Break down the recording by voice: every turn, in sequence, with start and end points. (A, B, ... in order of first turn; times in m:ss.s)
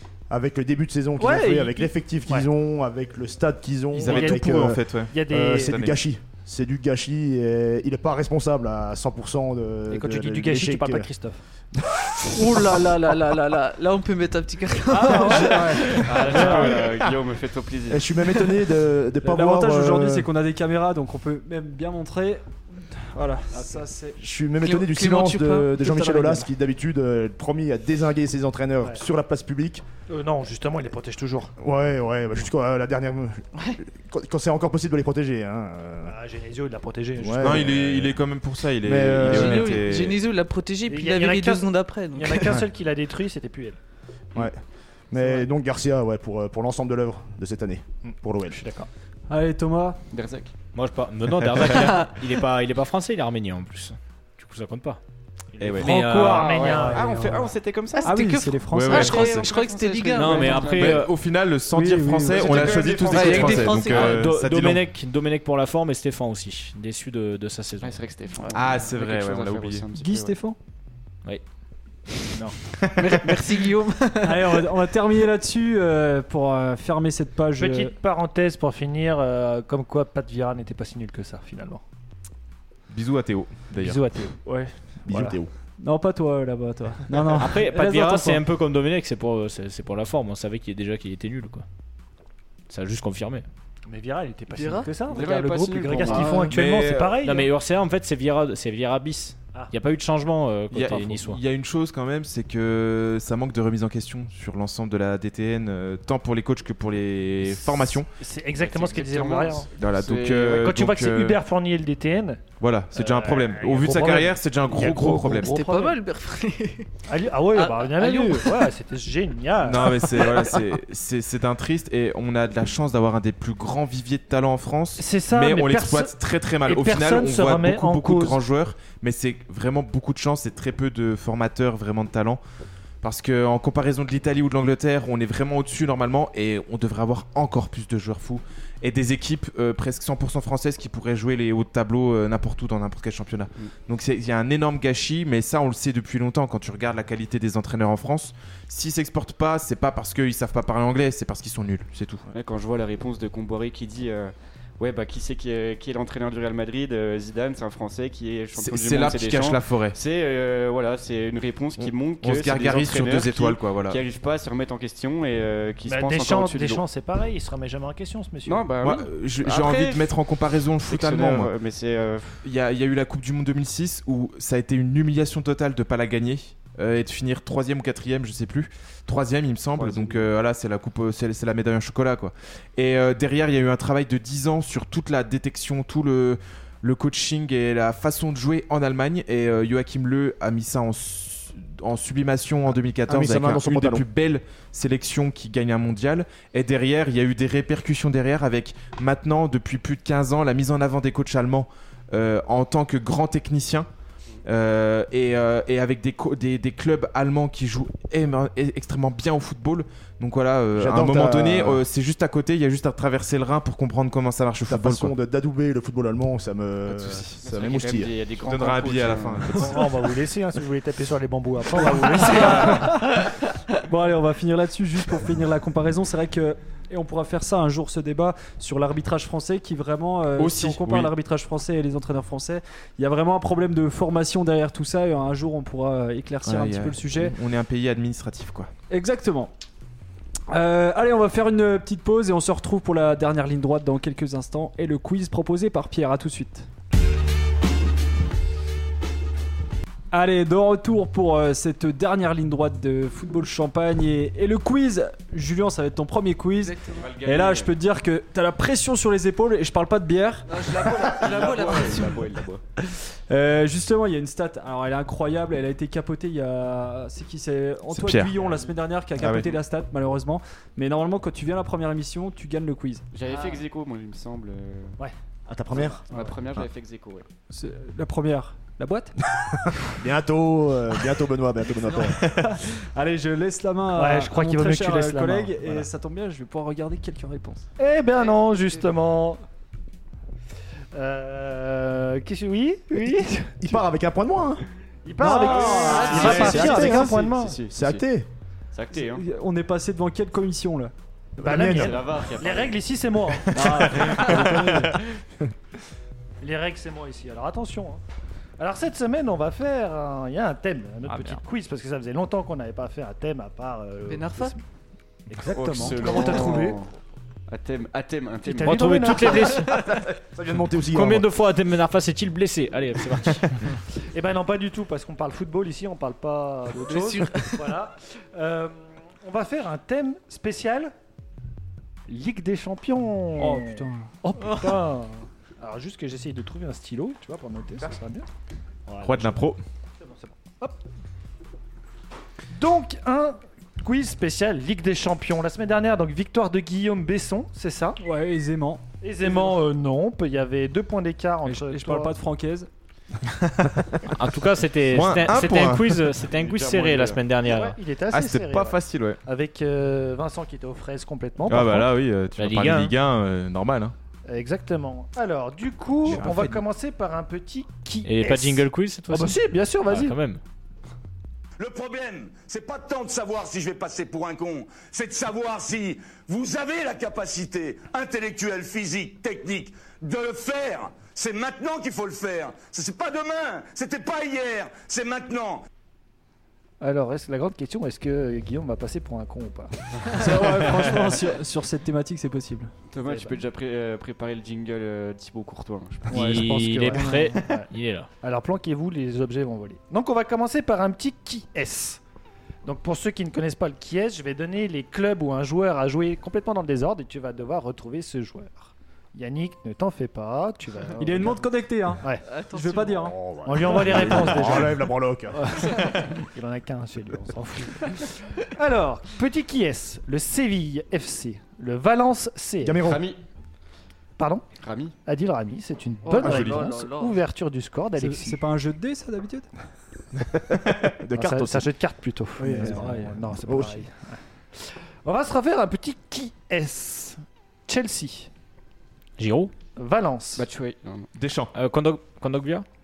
0:00.3-0:11.1 A
0:01.2-0:02.5 B
0:03.9-0:06.0 C
0:04.0-0:05.8 B
0:09.9-0:11.4 B
0:12.4-0:13.0 D
0:12.4-0:16.5 E
0:14.9-0:16.5 D
0:15.0-0:15.7 B
0:16.0-0:18.1 F
0:16.4-0:17.0 C
0:17.9-0:20.3 A
0:19.2-0:24.2 D
0:23.5-0:23.8 B
0:24.2-0:29.8 A
0:24.6-0:26.0 E
0:25.8-0:26.5 D
0:30.1-0:31.5 B
0:31.6-0:36.1 A
0:36.0-0:37.9 B
0:37.2-0:38.2 A
0:37.4-0:40.2 C
0:38.8-0:39.8 A
0:39.1-0:42.6 E
0:40.9-0:43.8 B
0:44.3-0:48.6 A
0:45.2-0:45.5 B
0:48.1-0:48.9 B
0:49.3-0:50.0 D
0:50.1-0:50.5 F
0:50.7-0:55.0 G
0:51.8-0:52.1 E
0:55.6-0:55.9 C
0:55.6-0:58.1 F
0:55.8-0:56.7 G
0:55.8-0:57.4 B
0:56.8-0:57.4 D
0:57.9-1:00.9 E
0:58.0-0:59.2 D
0:58.7-0:59.5 C
0:58.9-1:01.0 F
1:00.1-1:01.1 G
1:00.8-1:04.8 C
1:01.7-1:02.7 D
1:02.3-1:04.0 F
1:02.6-1:04.2 E
1:03.3-1:08.0 G
1:07.8-1:10.3 F
1:08.5-1:09.8 C
1:10.0-1:10.6 D
1:13.0-1:14.6 E
1:14.2-1:17.9 D
1:17.6-1:21.8 B
1:22.9-1:24.0 C
1:23.8-1:24.4 B
1:25.0-1:25.5 A
1:25.1-1:25.4 B
1:25.8-1:28.4 D
1:27.4-1:31.6 G
1:32.7-1:33.4 G
1:33.9-1:37.5 B
1:34.5-1:35.0 E
1:35.0-1:36.5 F
1:36.1-1:36.5 E
1:36.5-1:37.2 C
1:37.2-1:41.4 G
1:40.7-1:48.1 C
1:47.4-1:49.7 B
1:48.5-1:50.7 F
1:49.7-1:51.4 C
1:50.5-1:56.0 B
1:52.6-1:55.5 C
1:55.4-1:56.9 E
1:57.1-2:00.5 B
1:57.5-1:58.7 E
1:59.6-2:12.4 C
2:00.3-2:00.6 E
2:05.0-2:08.4 B
2:13.0-2:32.2 C
2:32.3-2:46.8 F
2:38.6-2:40.0 C
2:41.8-2:44.0 C
2:45.9-2:48.7 B
2:48.4-2:50.2 F
2:48.8-2:51.5 C
2:50.8-2:52.4 F
2:52.4-3:23.9 C
2:59.8-3:00.2 F
3:13.0-3:14.0 A
3:24.4-3:35.1 C
3:30.7-3:31.8 A
3:34.6-3:38.1 A
3:36.9-3:39.9 F
3:38.4-3:39.9 C
3:39.6-3:43.0 B
3:42.3-3:42.6 E
3:43.8-3:57.3 D
3:50.4-3:51.1 C
3:56.4-3:58.7 C
3:58.9-3:59.5 D
4:00.5-4:06.7 D
4:10.1-4:20.6 D
4:16.6-4:17.1 E
4:17.0-4:17.8 F
4:20.5-4:22.4 E
4:21.0-4:22.6 F
4:22.9-4:33.0 D
4:27.9-4:28.3 C
4:28.4-4:28.7 F
4:29.2-4:29.5 C
4:33.1-4:35.0 F
4:33.2-4:33.6 E
4:35.5-4:36.0 A
4:35.7-4:36.3 B
4:36.1-4:37.3 F
4:37.5-4:39.2 D
4:39.9-4:42.3 A
4:42.2-4:47.6 D
4:43.9-4:45.9 B
4:47.8-4:49.4 B
4:50.9-4:53.8 B
4:53.6-4:54.6 A
4:55.0-4:57.6 B
4:55.2-4:57.0 D
4:55.5-4:58.0 F
4:55.7-4:58.3 A
4:55.8-4:56.8 E
4:58.7-4:59.2 F
4:58.9-5:00.9 D
5:01.4-5:02.0 A
5:01.4-5:04.7 B
5:01.5-5:02.8 F
5:03.5-5:05.0 D
5:04.2-5:04.6 C
5:06.4-5:08.0 B
5:08.6-5:14.6 B
5:14.0-5:14.6 E
5:15.3-5:16.8 B
5:15.5-5:16.9 F
5:17.5-5:19.0 F
5:18.4-5:19.7 B
5:18.6-5:20.1 G
5:19.3-5:19.9 E
5:20.2-5:21.3 A
5:20.9-5:23.7 G
5:24.0-5:30.9 B
5:26.8-5:27.7 E
5:32.1-5:38.3 B
5:33.4-5:34.1 D
5:34.4-5:34.7 E
5:38.9-5:39.5 B
5:39.0-5:39.6 C
5:40.0-5:40.8 B
5:42.5-5:48.0 B
5:48.0-5:48.8 D
5:49.0-5:52.2 B
5:51.4-5:52.7 D
5:54.1-5:57.8 G
5:54.9-5:56.2 C
5:56.3-5:57.2 F
5:57.4-6:01.9 B
5:58.1-5:59.2 C
6:01.4-6:03.9 C
6:02.4-6:02.9 G
6:04.2-6:10.2 B
6:06.0-6:06.6 C
6:08.0-6:10.4 G
6:11.6-6:25.7 H
6:26.8-6:29.8 B
6:30.1-6:32.7 D
6:32.9-6:36.3 F
6:33.0-6:33.4 B
6:36.1-6:37.7 B
6:36.1-6:38.1 G
6:36.5-6:37.0 A
6:38.2-6:42.0 B
6:42.6-6:51.5 B
6:51.0-6:53.2 D
6:52.2-6:53.4 E
6:53.2-6:55.6 A
6:53.4-7:02.9 B
6:55.6-6:55.9 E
7:02.6-7:03.0 A
7:02.8-7:03.2 F
7:04.2-7:04.4 B
7:04.6-7:04.9 F
7:05.0-7:08.4 B
7:06.0-7:07.2 E
7:06.2-7:06.6 C
7:08.0-7:09.5 D
7:10.5-7:11.7 A
7:11.1-7:18.3 B
7:12.4-7:13.8 A
7:12.4-7:13.2 D
7:19.2-7:19.5 G
7:19.8-7:20.4 B
7:20.4-7:21.1 F
7:21.1-7:21.5 C
7:21.5-7:22.6 G